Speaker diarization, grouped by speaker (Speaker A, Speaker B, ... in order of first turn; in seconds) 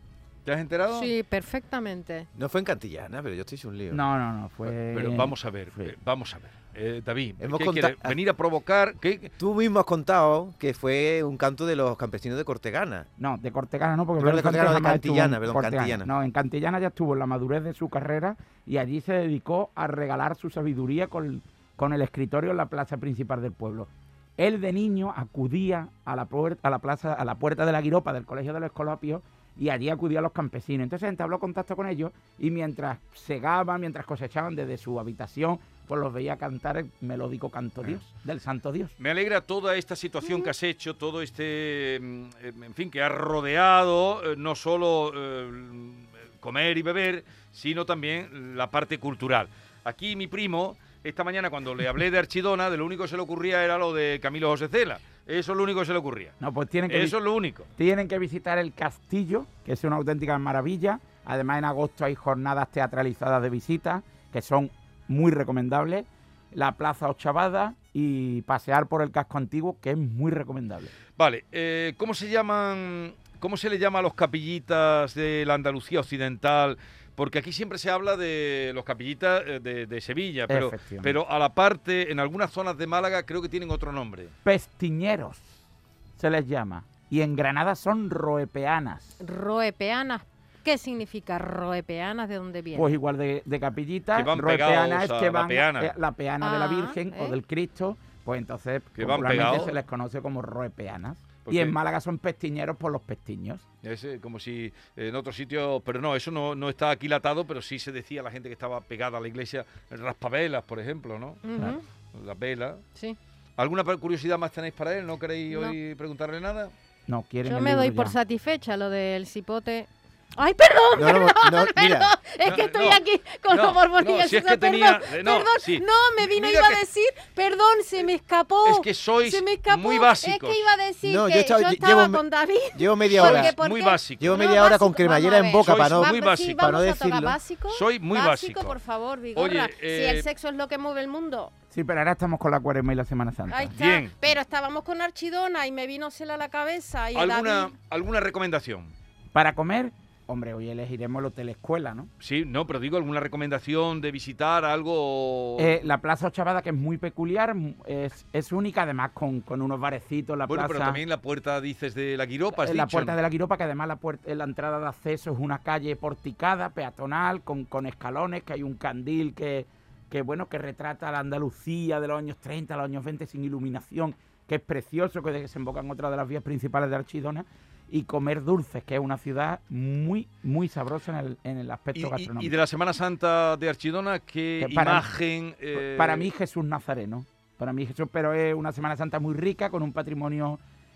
Speaker A: 0.4-1.1, 4.6-9.3, 39.0-56.4, 56.9-57.7, 71.2-84.3, 94.1-95.9, 99.0-99.8, 101.4-101.7, 103.8-111.6, 112.1-112.8, 113.6-116.7, 122.4-126.8, 128.6-130.7, 133.1-134.6, 135.6-136.8, 137.7-138.8, 139.3-140.3, 143.7-144.1, 147.1-148.9, 152.2-155.8, 160.5-163.2, 181.9-186.3
Speaker B: 0.9-2.3, 89.2-92.9, 96.4-97.4, 111.4-111.8, 115.5-115.8, 117.4-141.5, 143.5-147.7
Speaker C: 2.4-4.0, 7.4-8.2, 9.4-13.1, 14.2-16.1, 120.9-122.1, 131.0-133.5, 134.2-137.4
Speaker D: 3.9-5.9, 13.2-38.9, 56.4-57.2, 57.8-70.9, 80.5-81.2, 84.4-85.4, 86.2-89.2, 92.7-103.7, 117.1-118.2, 141.7-143.8, 149.3-152.1, 155.6-161.0, 162.6-182.5, 184.6-185.1, 185.7-190.6